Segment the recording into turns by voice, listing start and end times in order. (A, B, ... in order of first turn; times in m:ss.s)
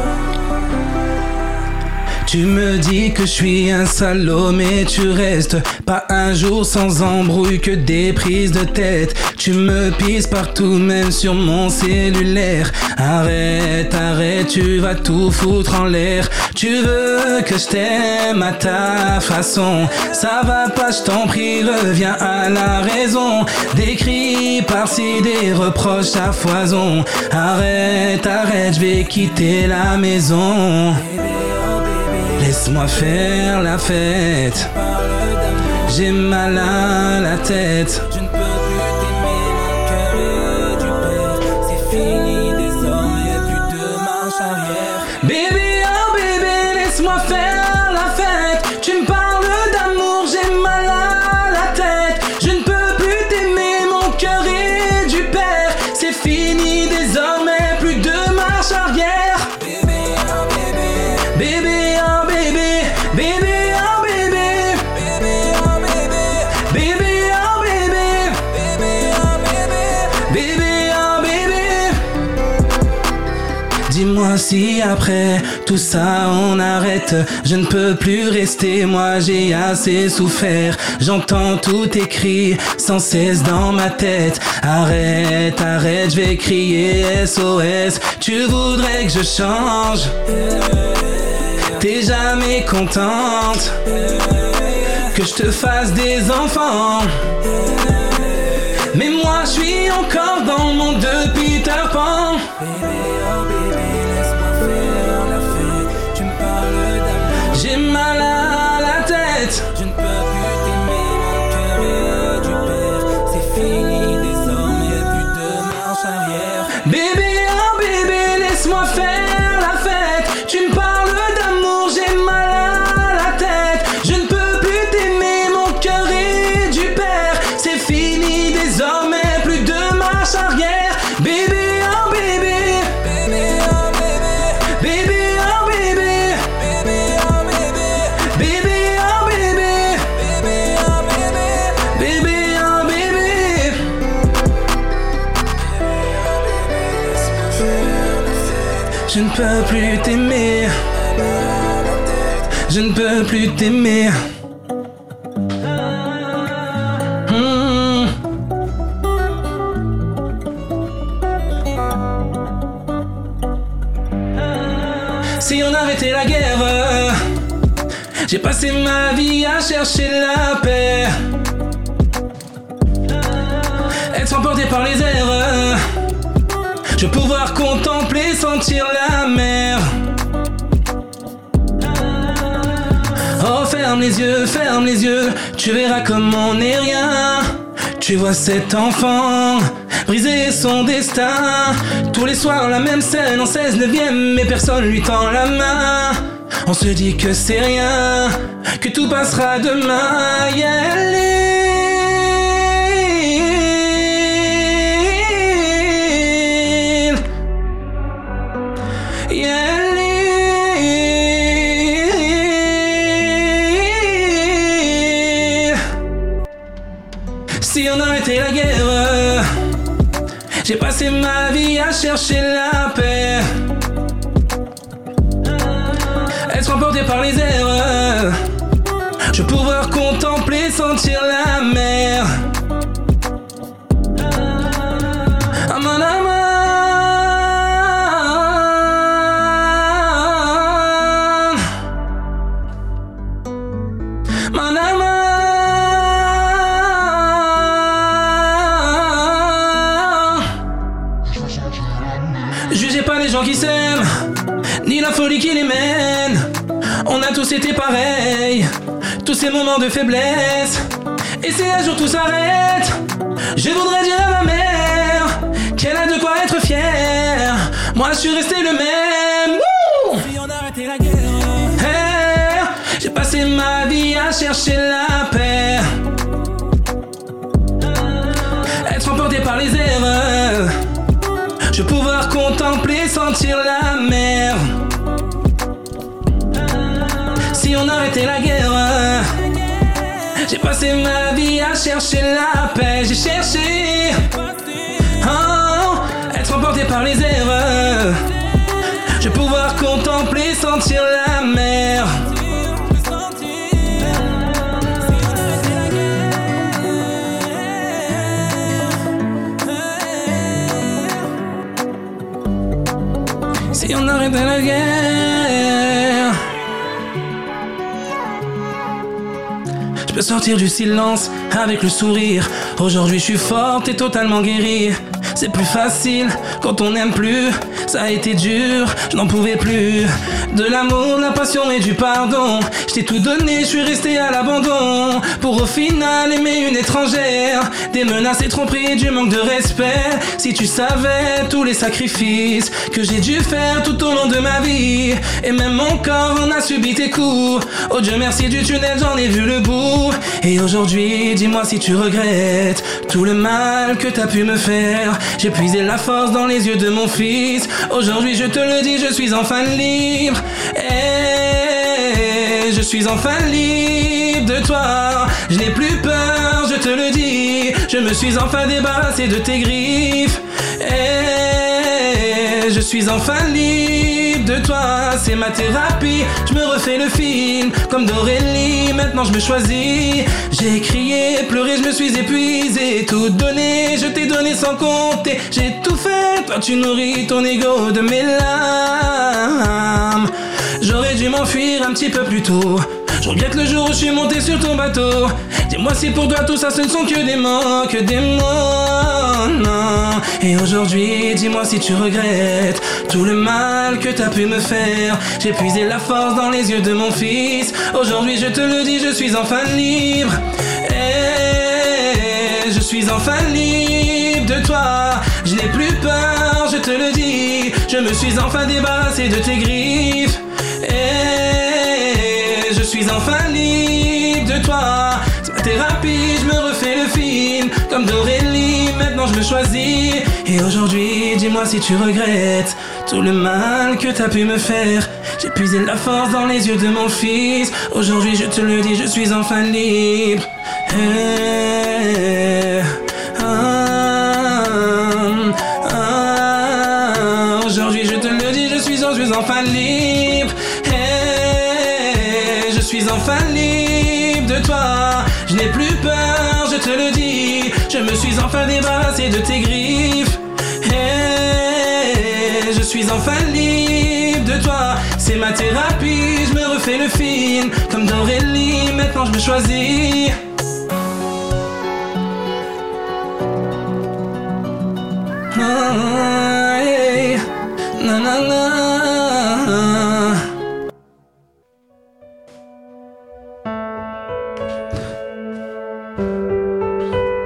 0:02.3-1:12.0 A
1:13.9-2:23.9 A
2:27.3-2:27.8 A
2:29.0-2:30.9 A
2:32.6-2:34.2 A
2:37.2-2:38.2 A
2:45.4-2:47.2 A
2:48.3-2:51.2 A
2:54.1-2:55.8 A
2:57.0-2:59.9 A
3:03.3-3:27.2 A
3:29.3-3:35.9 A
3:37.6-3:39.5 A
3:40.6-3:43.6 A
3:46.5-3:48.4 A
3:49.3-3:52.4 A
3:55.5-4:01.7 A
4:04.5-4:10.5 A
4:12.7-4:14.1 A
4:14.8-4:16.5 A
4:17.0-4:20.9 A
4:21.4-4:23.0 A
4:23.6-4:36.0 A
4:38.8-4:40.8 A
4:41.7-4:44.8 A
4:47.5-4:58.3 A
4:59.2-5:08.8 A
5:09.6-5:11.0 A
5:13.7-5:16.4 A
5:20.0-7:50.4 A
7:55.5-7:57.5 A
7:58.0-8:00.5 A